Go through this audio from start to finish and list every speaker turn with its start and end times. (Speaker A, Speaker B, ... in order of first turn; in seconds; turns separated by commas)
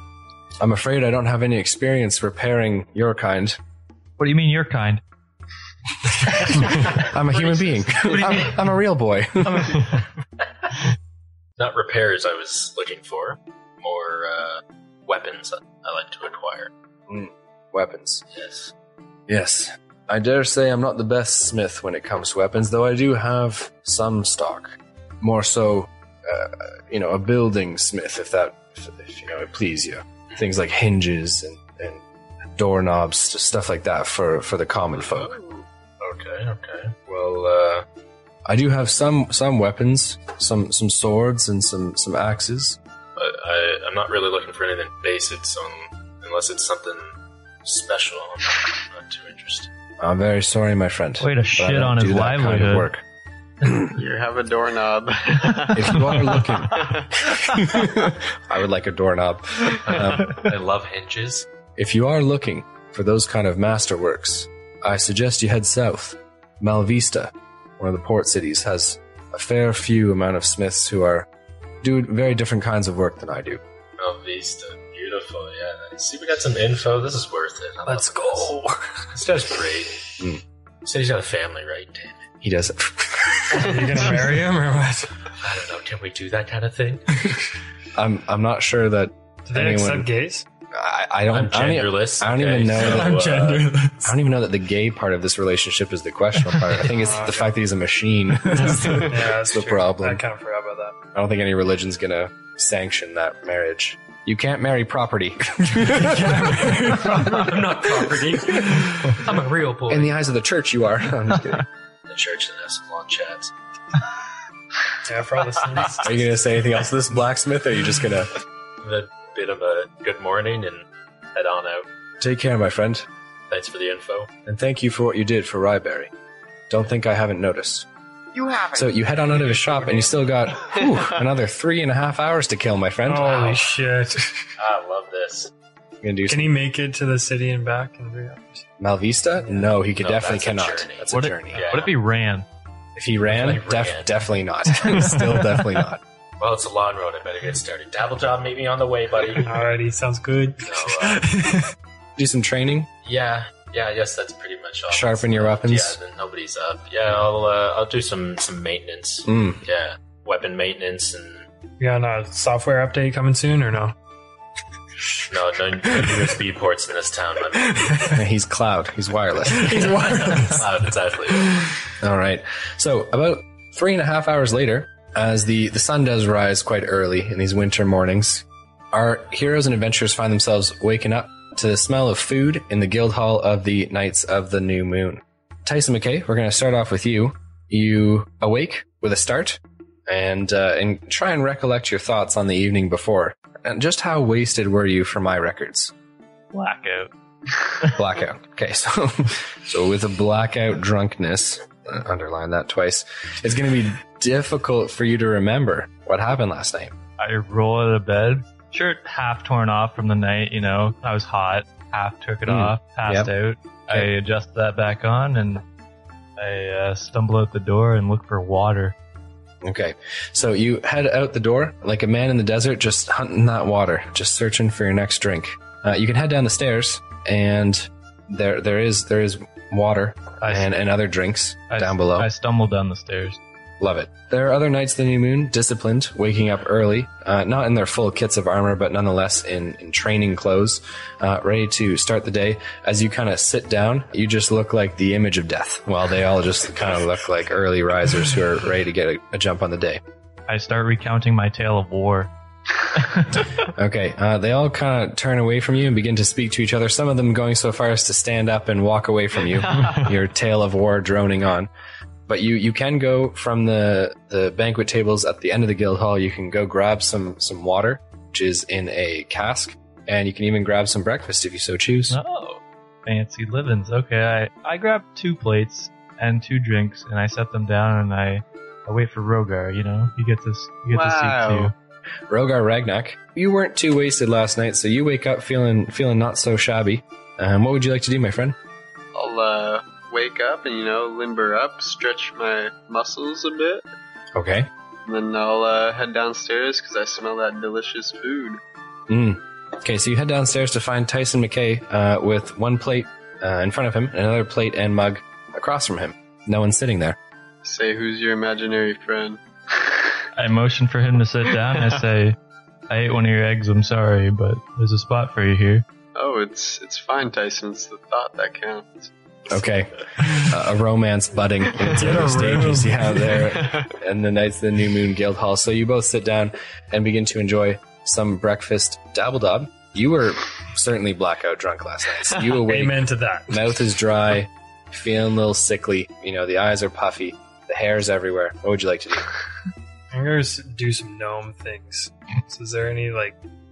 Speaker A: 0.6-3.6, Speaker B: 4.2-5.0, Speaker A: 6.2-10.0, Speaker C: 6.3-8.7, Speaker C: 11.6-16.7, Speaker A: 17.1-18.2, Speaker C: 18.3-18.7, Speaker A: 19.3-32.0, Speaker A: 32.5-35.3, Speaker C: 35.0-37.8, Speaker A: 38.5-42.8, Speaker C: 43.1-49.7, Speaker A: 50.0-53.0, Speaker B: 51.2-52.9, Speaker A: 53.6-54.0, Speaker D: 53.8-57.9, Speaker A: 55.7-60.5, Speaker C: 59.8-61.5, Speaker A: 61.8-71.3, Speaker A: 71.8-73.6, Speaker C: 74.0-78.5, Speaker E: 77.9-79.1, Speaker C: 79.1-80.0, Speaker C: 80.8-82.2, Speaker A: 82.4-84.0, Speaker E: 83.5-85.1, Speaker C: 85.4-87.2, Speaker A: 87.9-90.1, Speaker E: 89.5-90.4, Speaker A: 90.7-93.2, Speaker C: 91.3-93.8, Speaker E: 92.8-94.1, Speaker A: 94.0-100.2, Speaker E: 96.8-97.6, Speaker E: 98.8-100.9, Speaker A: 101.1-107.2, Speaker E: 106.0-107.5, Speaker C: 107.1-110.1, Speaker A: 108.4-109.2, Speaker A: 109.9-111.6, Speaker C: 112.1-113.5, Speaker E: 115.0-116.2, Speaker A: 116.0-118.3, Speaker C: 118.8-121.8, Speaker A: 122.2-123.1, Speaker C: 123.5-124.3, Speaker A: 124.5-126.1, Speaker A: 126.7-127.8, Speaker A: 128.6-133.4, Speaker E: 133.1-134.5, Speaker C: 133.2-133.7, Speaker C: 134.6-135.5, Speaker A: 136.0-136.5, Speaker E: 136.3-138.7, Speaker A: 138.8-141.7, Speaker E: 139.4-139.7, Speaker C: 140.0-141.9, Speaker B: 141.1-142.5, Speaker A: 142.9-146.0, Speaker C: 143.2-144.2, Speaker C: 146.4-149.6, Speaker E: 149.4-151.7, Speaker C: 150.6-151.3, Speaker A: 152.2-152.9, Speaker C: 153.0-161.5, Speaker A: 154.9-156.0, Speaker A: 159.2-159.6, Speaker E: 161.8-163.9, Speaker C: 165.3-168.1, Speaker A: 168.1-170.0, Speaker E: 169.5-170.6, Speaker C: 170.2-171.7, Speaker A: 172.0-195.9, Speaker B: 196.5-197.1, Speaker A: 197.9-206.9, Speaker B: 207.2-215.6, Speaker A: 212.4-213.3, Speaker B: 216.4-218.9, Speaker A: 219.6-232.3, Speaker B: 230.4-230.7, Speaker B: 231.7-233.4, Speaker A: 233.8-250.0, Speaker B: 250.5-252.3, Speaker B: 253.0-253.4, Speaker A: 253.6-261.7, Speaker A: 262.3-272.2, Speaker B: 272.1-281.7, Speaker D: 280.9-281.7, Speaker A: 282.3-288.6, Speaker D: 289.1-293.9, Speaker A: 294.3-294.7, Speaker D: 295.1-298.6, Speaker A: 299.1-307.2, Speaker D: 307.6-310.2, Speaker B: 310.4-312.4, Speaker B: 312.9-315.8, Speaker D: 316.1-319.1, Speaker A: 319.5-339.3, Speaker E: 321.8-323.4, Speaker E: 332.6-333.6, Speaker E: 340.1-343.4